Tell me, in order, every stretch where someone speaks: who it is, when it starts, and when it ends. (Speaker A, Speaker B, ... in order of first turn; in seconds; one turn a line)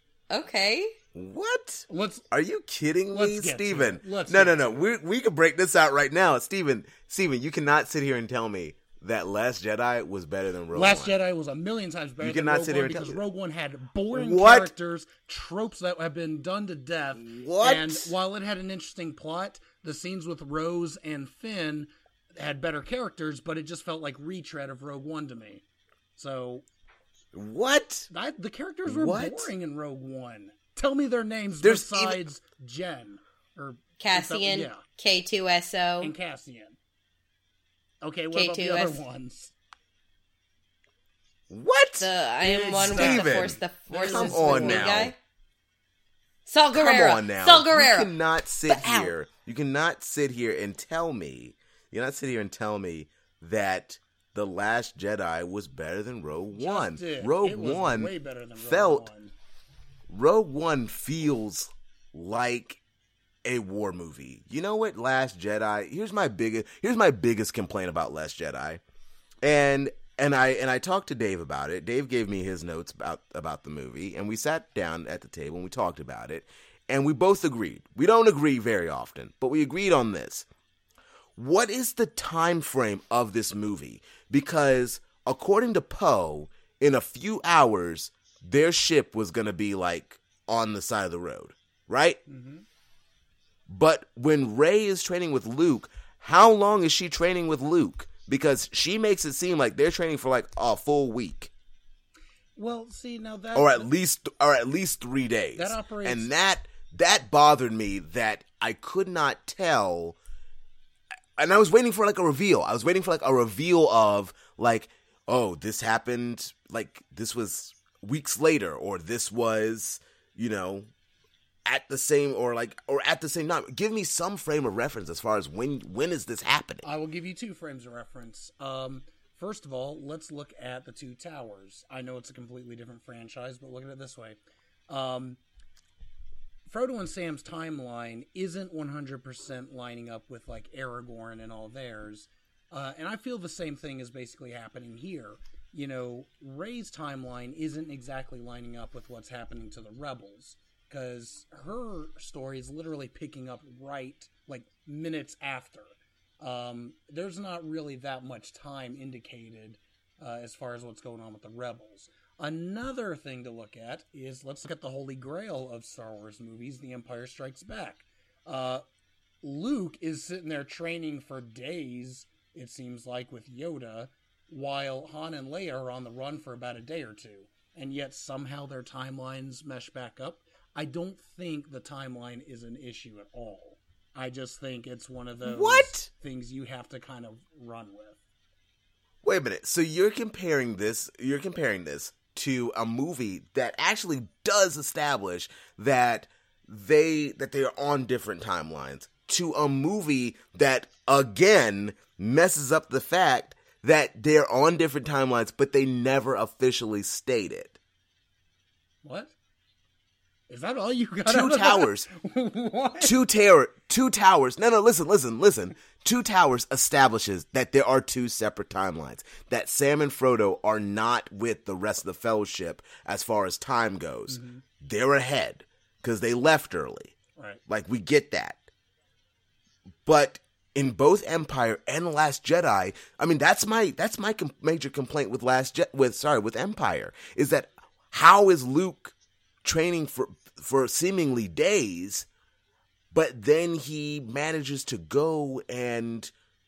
Speaker A: 0.3-0.9
Speaker B: 1.1-11.2
Speaker C: 1.9-2.2
Speaker C: 3.1-4.9
Speaker C: 10.7-25.6
Speaker B: 12.2-13.2
Speaker B: 14.1-14.7
Speaker B: 17.2-18.1
Speaker C: 26.2-26.6
Speaker B: 27.3-28.1
Speaker C: 28.1-34.8
Speaker B: 28.9-29.5
Speaker B: 31.6-32.2
Speaker A: 34.0-36.1
Speaker C: 36.0-36.8
Speaker C: 38.0-39.5
Speaker A: 38.3-39.0
Speaker B: 41.5-42.1
Speaker A: 42.0-45.1
Speaker C: 42.4-45.0
Speaker B: 42.7-45.1
Speaker A: 46.5-48.1
Speaker B: 46.7-59.1
Speaker A: 48.6-49.1
Speaker C: 56.5-59.3
Speaker B: 60.1-62.8
Speaker B: 63.4-68.8
Speaker B: 69.4-80.5
Speaker B: 81.3-92.2
Speaker C: 92.3-92.6
Speaker B: 93.7-101.5
Speaker C: 102.6-103.8
Speaker B: 103.5-110.2
Speaker C: 105.5-106.3
Speaker B: 111.4-120.9
Speaker B: 121.7-126.8
Speaker C: 126.8-134.4
Speaker C: 134.9-135.4
Speaker C: 136.7-168.8
Speaker C: 169.4-188.2
Speaker B: 185.4-186.1
Speaker B: 189.2-207.8
Speaker C: 209.0-209.3
Speaker C: 210.5-213.2
Speaker B: 211.2-212.1
Speaker B: 213.0-227.1
Speaker C: 224.3-224.6
Speaker C: 227.3-227.6
Speaker B: 227.7-228.6
Speaker B: 230.1-242.3
Speaker B: 243.1-246.3